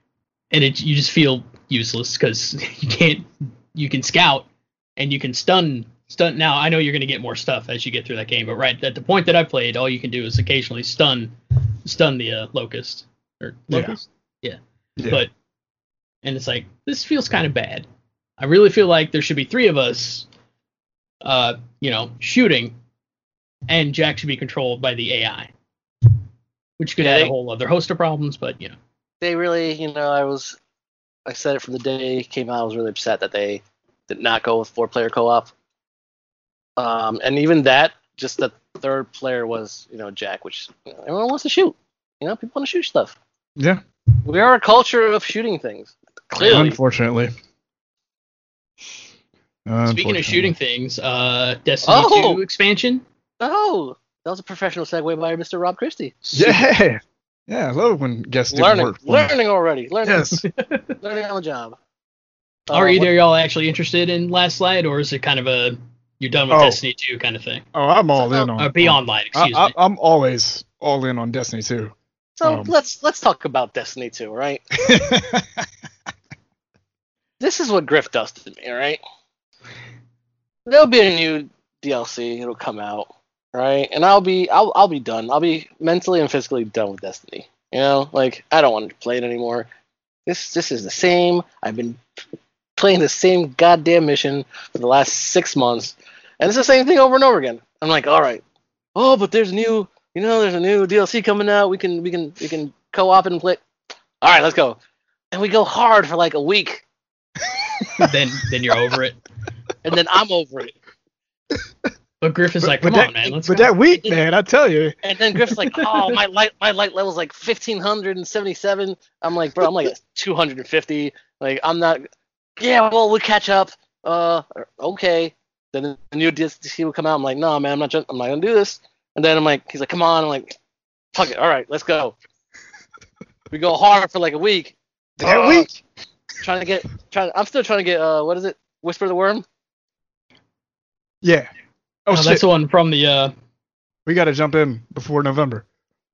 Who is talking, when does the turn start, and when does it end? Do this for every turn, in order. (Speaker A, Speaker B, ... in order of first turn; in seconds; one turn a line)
Speaker A: 0.5-15.3
Speaker B: 13.7-14.0
Speaker A: 16.2-17.9
Speaker A: 18.4-20.3
Speaker A: 21.2-22.8
Speaker A: 23.7-25.5
Speaker A: 26.8-28.8
Speaker C: 27.0-27.3
Speaker C: 29.2-30.6
Speaker C: 31.2-35.5
Speaker C: 36.8-43.1
Speaker B: 43.6-43.8
Speaker C: 44.2-46.8
Speaker B: 46.4-47.3
Speaker B: 49.6-50.5
Speaker A: 49.9-53.0
Speaker C: 51.9-52.4
Speaker C: 53.4-56.2
Speaker A: 56.2-56.6
Speaker B: 56.3-59.3
Speaker C: 58.5-60.4
Speaker B: 60.0-60.4
Speaker A: 60.5-60.9
Speaker C: 61.0-61.8
Speaker C: 62.7-63.1
Speaker A: 62.7-67.6
Speaker B: 66.5-66.8
Speaker B: 67.7-72.7
Speaker C: 68.2-68.5
Speaker A: 68.6-69.7
Speaker C: 72.4-74.8
Speaker B: 74.8-75.7
Speaker C: 77.4-79.0
Speaker C: 80.7-89.7
Speaker C: 90.2-92.0
Speaker C: 92.8-98.4
Speaker C: 98.9-103.6
Speaker C: 104.2-104.8
Speaker C: 105.3-106.8
Speaker B: 107.5-108.1
Speaker A: 108.0-109.2
Speaker C: 109.8-110.8
Speaker A: 112.2-113.7
Speaker B: 112.6-114.9
Speaker C: 115.0-122.1
Speaker C: 122.6-130.6
Speaker C: 131.1-132.1
Speaker C: 133.5-135.7
Speaker B: 135.2-135.8
Speaker C: 136.4-139.4
Speaker B: 141.2-141.5
Speaker B: 142.1-142.4
Speaker A: 142.1-143.3
Speaker B: 144.1-145.6